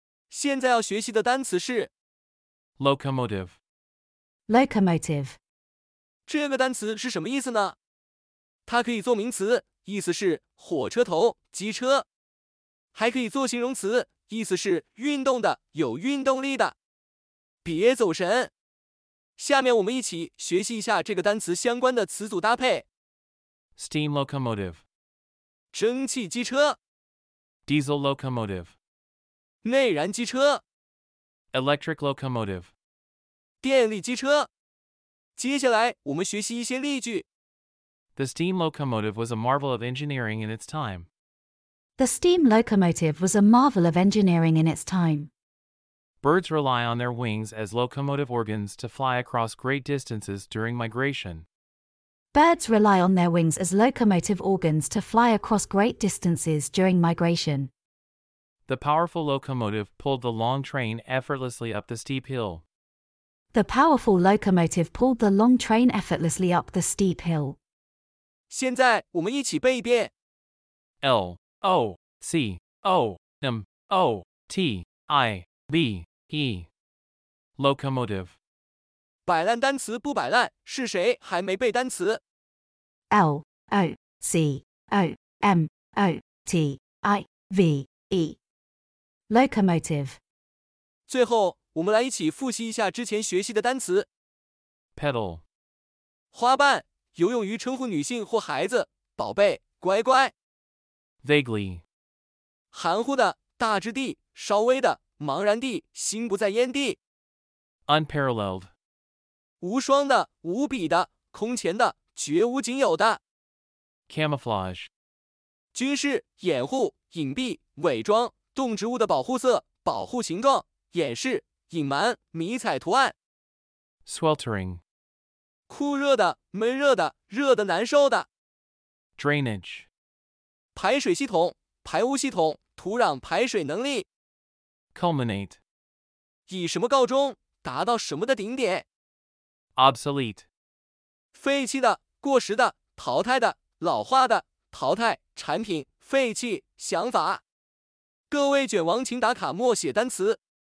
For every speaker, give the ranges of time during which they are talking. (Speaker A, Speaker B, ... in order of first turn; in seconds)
Speaker A: 0.3-1.9, 6.3-7.8, 8.7-12.1, 12.9-16.8, 17.6-18.5, 19.4-22.9, 25.7-26.8, 29.6-30.6, 33.6-34.5, 35.4-37.3, 68.5-70.1, 79.3-82.2, 91.1-94.1, 96.3-100.3, 102.7-107.0, 109.6-113.2, 115.7-123.2, 125.7-128.3, 130.8-134.1, 136.5-138.9, 141.3-147.4, 148.3-150.4
Speaker B: 2.8-3.6, 23.8-24.8, 27.7-28.8, 31.5-32.7, 38.2-41.1, 46.2-51.5, 58.7-62.6, 71.0-76.7, 77.6-78.4, 95.0-95.4, 101.2-101.8, 107.9-108.7, 114.1-114.9, 124.1-124.8, 129.2-129.9, 134.9-135.6, 139.8-140.4
Speaker C: 4.5-5.4, 42.0-45.3, 52.3-57.7, 63.5-67.6, 83.1-88.4, 89.3-90.2